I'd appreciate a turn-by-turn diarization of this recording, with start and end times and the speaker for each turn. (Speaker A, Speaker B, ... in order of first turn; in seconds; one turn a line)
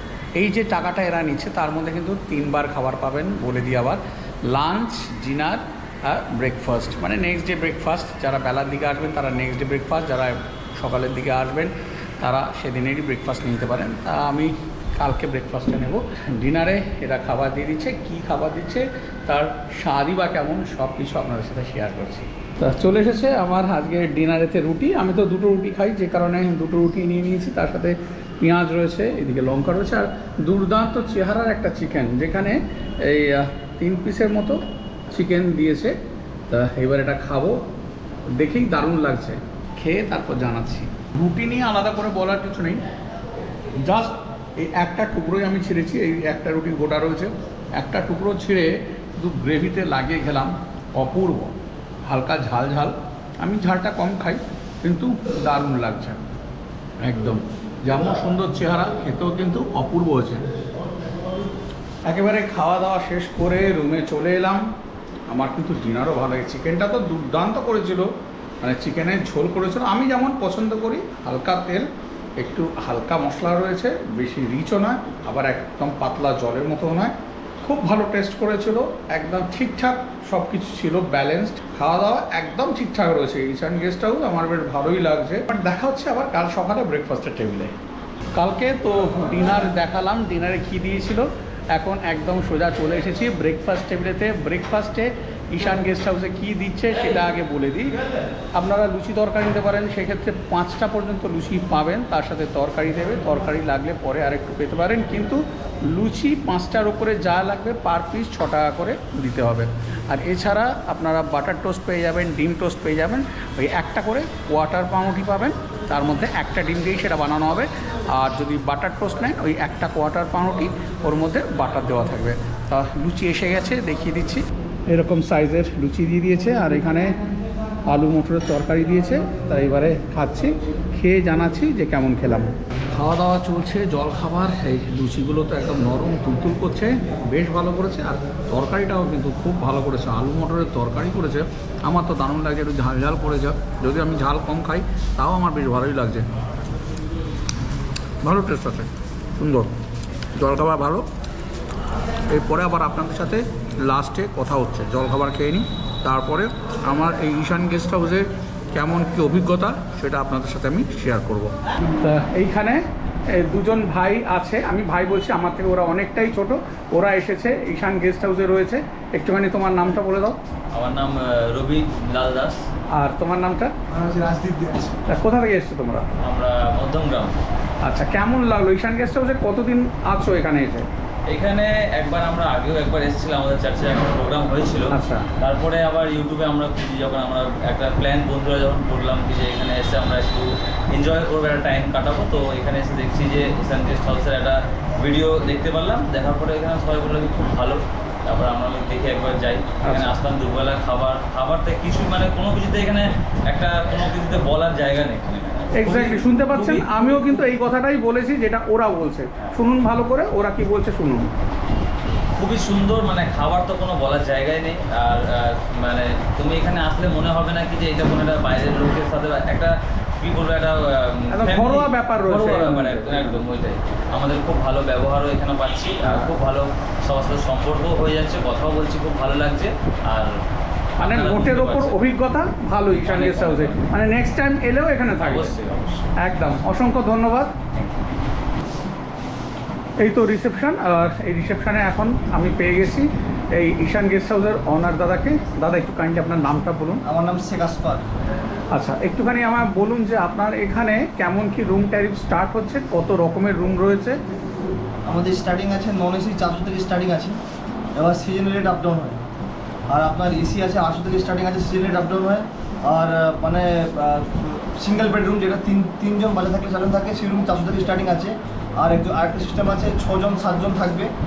Speaker A: 0.4-36.0
Speaker A: 36.5-37.6
Speaker A: 38.4-42.8
Speaker A: 43.8-56.2
Speaker A: 57.0-60.5
Speaker A: 62.1-64.7
Speaker A: 65.3-68.1
Speaker A: 68.6-71.9
Speaker A: 72.4-87.7
Speaker A: 88.3-98.0
Speaker A: 98.5-127.1
Speaker A: 127.9-146.3
Speaker A: 148.2-149.8
Speaker A: 150.3-151.1
Speaker A: 152.3-170.4
Speaker B: 170.7-172.6
Speaker A: 172.9-173.7
Speaker C: 173.9-175.0
Speaker A: 175.1-176.1
Speaker B: 176.2-177.4
Speaker A: 177.8-180.9
Speaker B: 181.3-207.0
Speaker A: 184.9-185.3
Speaker A: 199.8-200.1
Speaker A: 205.8-211.3
Speaker B: 212.4-230.3
Speaker A: 221.3-223.4
Speaker B: 231.0-232.0
Speaker A: 231.0-235.6
Speaker B: 233.0-233.9
Speaker B: 235.1-236.2
Speaker A: 236.2-237.6
Speaker B: 237.8-238.2
Speaker A: 240.0-247.0
Speaker C: 247.1-248.0
Speaker A: 248.7-254.2
Speaker C: 255.1-257.4
Speaker C: 258.0-259.2
Speaker C: 259.9-271.1